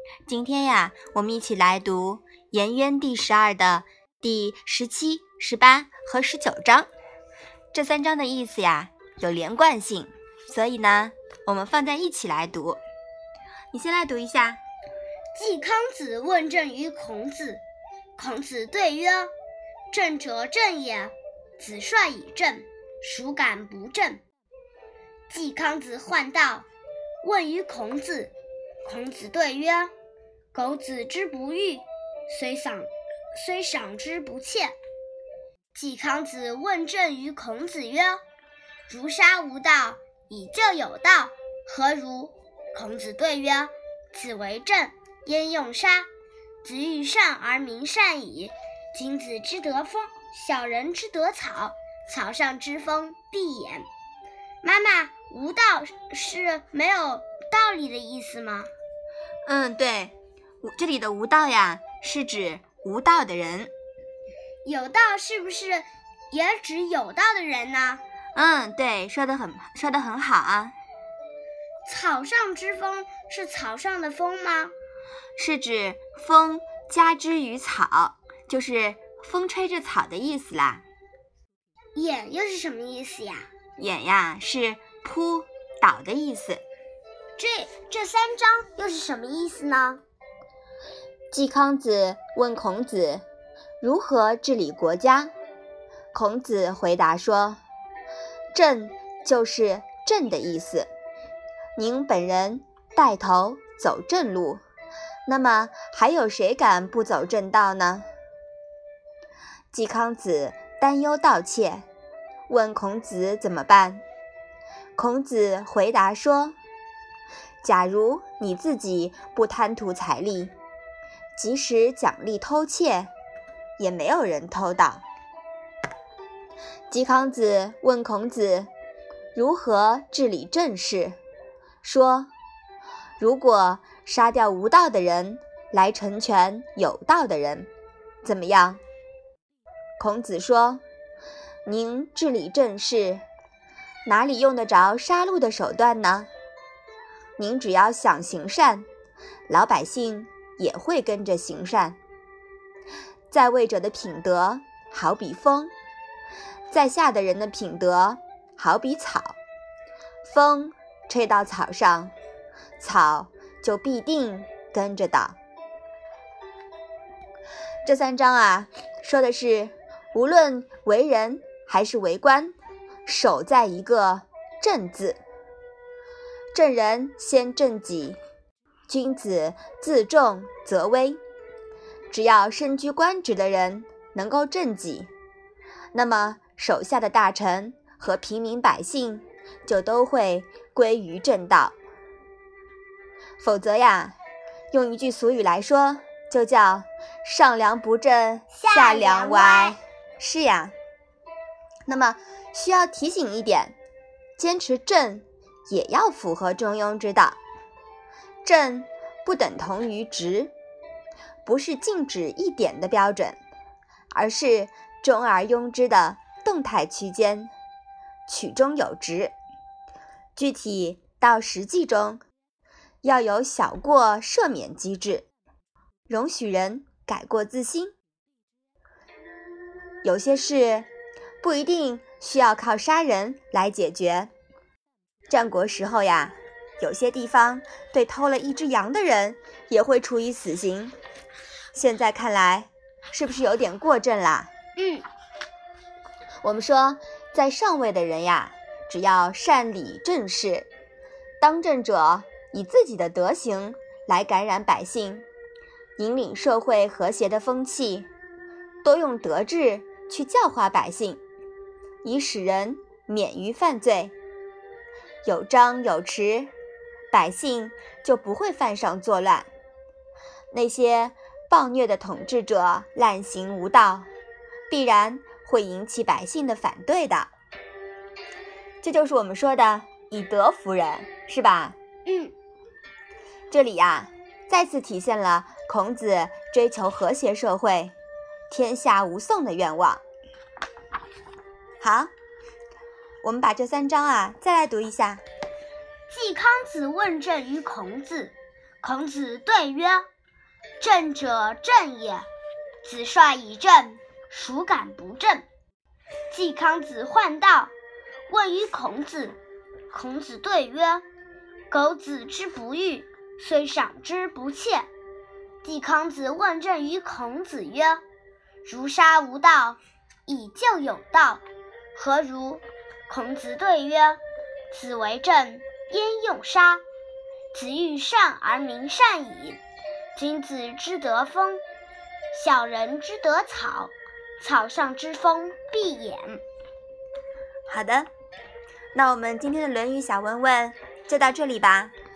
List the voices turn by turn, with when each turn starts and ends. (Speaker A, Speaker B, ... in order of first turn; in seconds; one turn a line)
Speaker A: 0.3-6.9
Speaker A: 7.7-12.8
Speaker A: 13.7-14.6
Speaker B: 15.3-17.6
Speaker B: 18.2-19.3
Speaker B: 19.9-24.2
Speaker B: 25.3-26.7
Speaker B: 27.2-28.3
Speaker B: 28.9-29.9
Speaker B: 30.5-34.8
Speaker B: 35.7-38.2
Speaker B: 38.9-46.1
Speaker B: 46.6-53.9
Speaker B: 54.6-58.7
Speaker A: 59.5-63.7
Speaker B: 64.7-68.0
Speaker A: 68.3-70.8
Speaker B: 71.9-74.7
Speaker A: 75.4-80.8
Speaker B: 82.0-83.5
Speaker A: 83.8-86.6
Speaker B: 87.4-90.0
Speaker A: 91.3-93.2
Speaker A: 93.8-95.3
Speaker A: 96.1-97.6
Speaker A: 98.5-100.9
Speaker A: 101.8-104.6
Speaker A: 105.3-108.0
Speaker A: 109.7-111.8
Speaker A: 112.5-114.0
Speaker A: 115.0-116.5
Speaker A: 117.6-120.5
Speaker A: 121.4-123.1
Speaker A: 123.8-125.0
Speaker A: 126.9-128.7
Speaker A: 129.3-131.2
Speaker A: 131.8-132.3
Speaker A: 133.2-137.7
Speaker A: 138.2-138.8
Speaker A: 140.0-140.8
Speaker A: 141.7-143.2
Speaker A: 144.1-146.3
Speaker A: 147.4-148.8
Speaker A: 149.5-152.0
Speaker A: 153.3-155.7
Speaker A: 156.7-159.4
Speaker A: 160.3-162.1
Speaker A: 162.8-165.4
Speaker A: 167.8-172.5
Speaker A: 173.1-175.2
Speaker A: 176.5-178.2
Speaker A: 178.9-181.2
Speaker A: 182.1-185.1
Speaker A: 185.9-191.8
Speaker A: 193.4-194.2
Speaker A: 194.7-200.7
Speaker B: 198.5-199.8
Speaker A: 201.9-203.8
Speaker A: 204.4-207.4
Speaker A: 208.4-210.5
Speaker A: 211.4-213.4
Speaker A: 214.1-217.5
Speaker A: 218.3-219.3
Speaker A: 220.4-222.2
Speaker A: 223.0-225.3
Speaker A: 226.1-227.9
Speaker A: 230.0-230.9
Speaker A: 231.4-234.3
Speaker A: 235.3-240.9
Speaker A: 241.7-244.5
Speaker B: 244.8-245.1
Speaker A: 246.4-250.7
Speaker A: 251.4-255.2
Speaker A: 256.0-258.1
Speaker A: 258.8-261.2
Speaker A: 262.0-264.1
Speaker A: 265.2-266.5
Speaker A: 267.1-269.5
Speaker A: 270.5-274.1
Speaker A: 274.7-277.3
Speaker A: 278.8-281.8
Speaker B: 282.1-282.3
Speaker A: 283.5-287.9
Speaker A: 288.5-290.0
Speaker A: 291.8-292.1
Speaker A: 293.2-295.2
Speaker B: 296.1-300.1
Speaker B: 300.8-302.3
Speaker B: 302.8-305.5
Speaker B: 306.3-307.7
Speaker B: 308.3-309.4
Speaker B: 309.9-311.0
Speaker B: 311.7-314.9
Speaker B: 315.6-318.0
Speaker B: 318.6-321.4
Speaker B: 321.9-326.8
Speaker B: 327.5-329.6
Speaker B: 330.1-331.6
Speaker B: 332.3-336.4
Speaker A: 337.7-338.1
Speaker A: 338.9-341.9